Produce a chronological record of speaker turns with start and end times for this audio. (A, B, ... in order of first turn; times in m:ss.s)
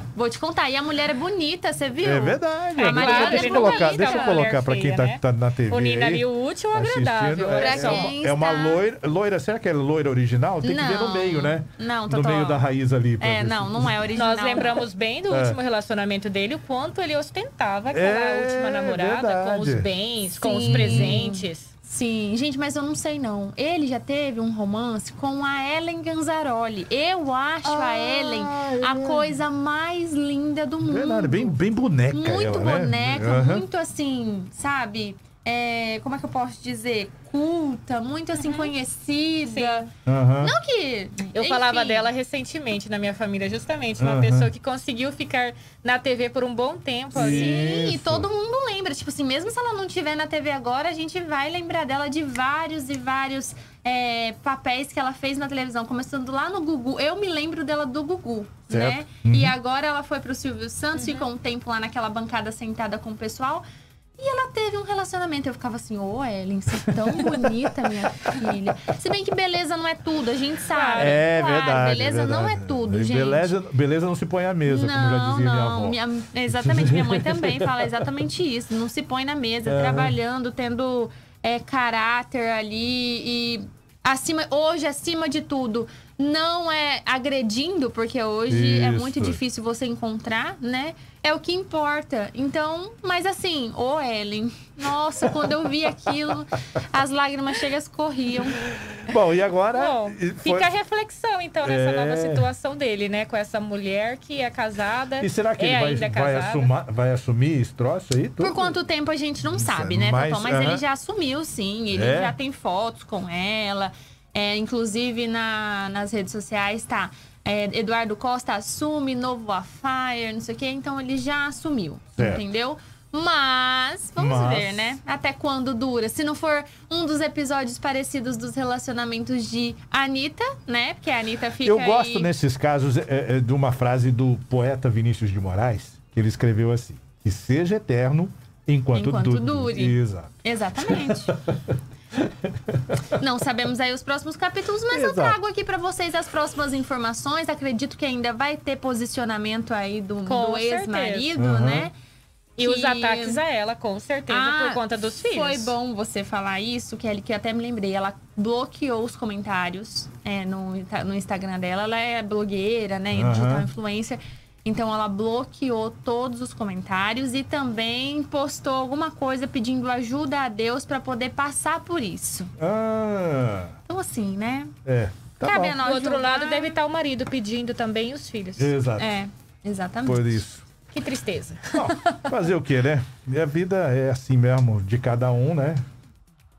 0:00.1-0:04.4 A
0:02.0-0:14.1 B
0:02.8-0:08.1 C
0:07.6-0:08.8 A
0:10.6-0:12.6 A
0:13.2-0:14.8 A
0:14.2-0:21.7 C
0:15.3-0:15.6 B
0:17.9-0:19.9 B
0:20.4-0:31.6 A
0:20.6-0:21.3 B
0:27.6-0:29.4 B
0:30.8-0:33.7 B
0:32.1-0:42.1 A
0:38.4-0:38.7 C
0:39.5-0:39.8 C
0:40.0-0:40.6 B
0:41.3-0:47.7 C
0:44.0-0:44.5 B
0:47.1-0:48.3 B
0:47.2-1:03.6 A
0:58.7-0:59.6 B
1:01.0-1:01.3 C
1:04.2-1:13.6 A
1:07.2-1:07.5 B
1:10.7-1:11.2 C
1:11.0-1:16.0 B
1:14.6-1:38.6 A
1:16.5-1:17.9 B
1:19.7-1:20.2 B
1:28.5-1:29.4 B
1:38.7-1:40.7 B
1:39.7-1:46.7 C
1:41.6-1:42.5 B
1:45.2-1:48.8 B
1:48.4-2:12.3 A
1:49.5-1:50.8 B
1:51.9-1:52.4 B
2:02.2-2:02.4 B
2:04.2-2:05.0 B
2:11.6-2:23.0 B
2:18.9-2:21.3 A
2:23.1-2:31.9 A
2:24.9-2:25.4 B
2:30.3-2:31.3 C
2:31.4-2:31.9 B
2:32.6-2:35.8 C
2:32.6-2:33.4 A
2:34.3-2:52.5 A
2:43.1-2:43.7 B
2:52.6-2:53.7 B
2:53.9-2:54.7 A
2:54.8-2:55.8 B
2:55.4-2:56.8 A
2:55.6-2:58.8 C
2:58.6-2:59.1 B
2:59.0-3:00.4 A
3:00.0-3:00.6 B
3:00.9-3:02.4 C
3:01.7-3:05.8 B